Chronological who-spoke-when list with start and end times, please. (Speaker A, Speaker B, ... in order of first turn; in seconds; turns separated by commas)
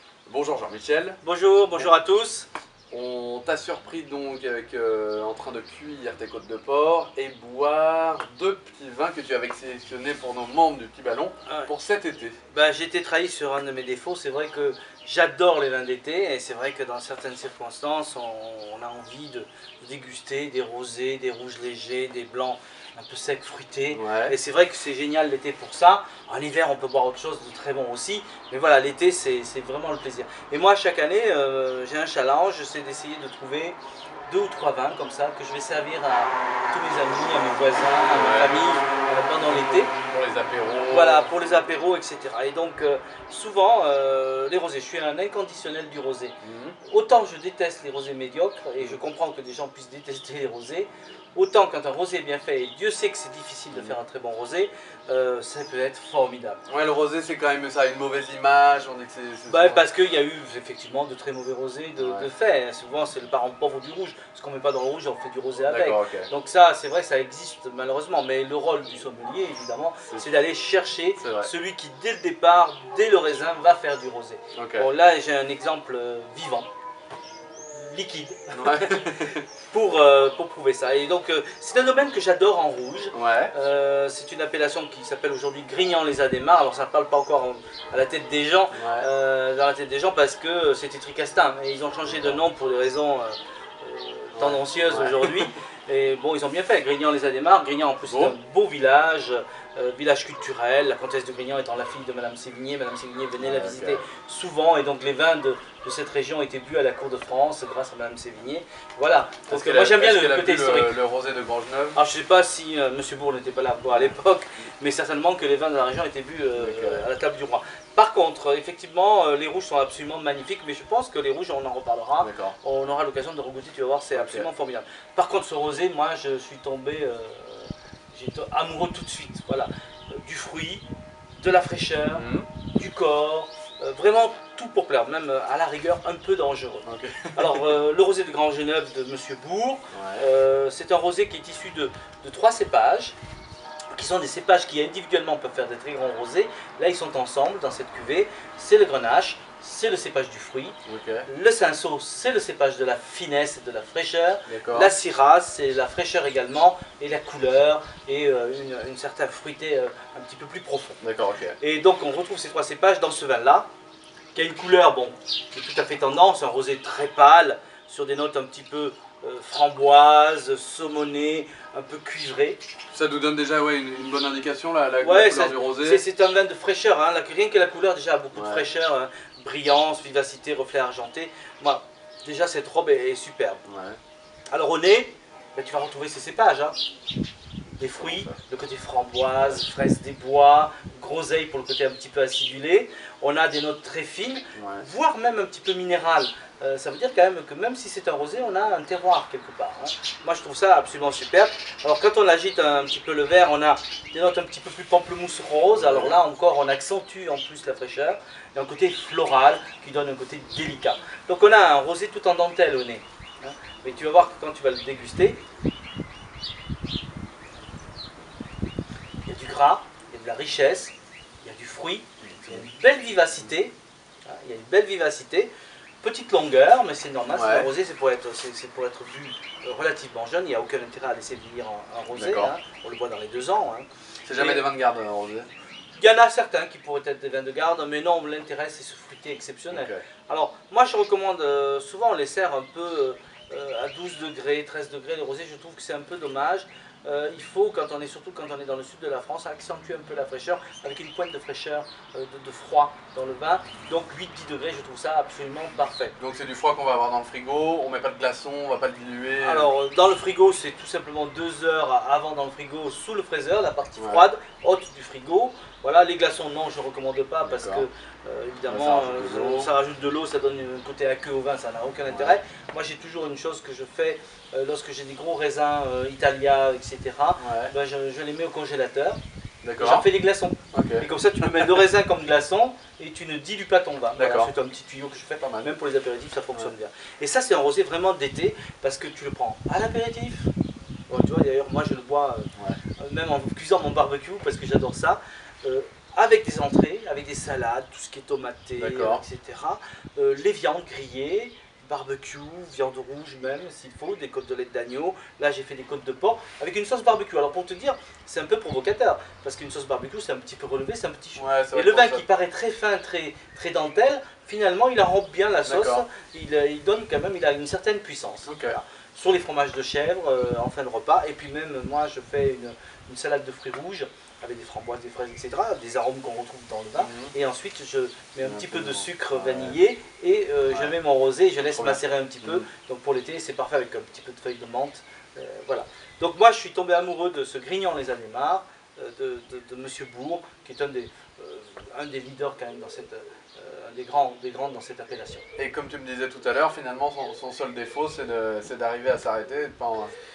Speaker A: 0.2-1.2, Speaker B: 1.2-2.5, Speaker A: 2.9-12.4, Speaker B: 12.5-39.9, Speaker A: 23.9-24.3, Speaker A: 38.1-38.5, Speaker A: 40.1-41.3, Speaker B: 40.9-46.3, Speaker A: 46.4-46.8, Speaker B: 46.9-56.6, Speaker A: 56.7-59.8, Speaker B: 59.5-76.7, Speaker A: 62.0-62.3, Speaker A: 65.7-66.3, Speaker A: 71.2-71.5, Speaker A: 74.5-74.9, Speaker B: 77.7-111.0, Speaker A: 78.5-79.4, Speaker A: 83.1-83.5, Speaker A: 88.7-89.1, Speaker A: 92.1-92.4, Speaker A: 94.3-95.5, Speaker A: 98.0-98.3, Speaker A: 103.4-104.0, Speaker A: 109.5-112.0, Speaker B: 111.9-130.8, Speaker A: 113.9-114.1, Speaker A: 116.6-117.1, Speaker A: 122.2-122.5, Speaker A: 124.1-124.5, Speaker B: 131.4-143.1, Speaker A: 132.1-132.5, Speaker A: 136.8-137.7, Speaker A: 139.9-140.2, Speaker B: 143.9-150.8, Speaker A: 150.8-151.3, Speaker B: 151.3-161.0, Speaker A: 154.5-154.9, Speaker A: 161.0-161.6, Speaker B: 161.6-163.7, Speaker B: 164.3-172.6, Speaker A: 172.9-176.0, Speaker B: 175.0-183.6, Speaker A: 178.3-178.7, Speaker A: 183.6-184.0, Speaker B: 184.5-186.8, Speaker A: 187.8-188.3, Speaker B: 187.8-215.4, Speaker A: 194.5-194.8, Speaker A: 205.7-206.2, Speaker B: 219.2-234.6, Speaker A: 222.2-222.7, Speaker A: 227.3-227.7, Speaker A: 232.1-232.5, Speaker A: 234.2-235.5, Speaker B: 236.0-256.1, Speaker A: 239.7-240.0, Speaker A: 256.2-259.7, Speaker B: 259.4-279.2, Speaker A: 264.0-264.2, Speaker A: 267.4-267.9, Speaker A: 268.7-269.7, Speaker A: 272.1-272.4, Speaker A: 277.4-277.7, Speaker A: 279.6-280.1, Speaker B: 279.8-290.5, Speaker A: 280.7-281.8, Speaker A: 284.1-284.5, Speaker A: 285.4-285.7, Speaker B: 291.1-292.5, Speaker B: 293.0-345.4, Speaker A: 298.8-299.2, Speaker A: 311.3-312.2, Speaker A: 315.6-316.0, Speaker A: 318.5-318.8, Speaker A: 327.0-327.3, Speaker A: 328.4-329.8, Speaker A: 331.7-332.6, Speaker A: 345.6-350.1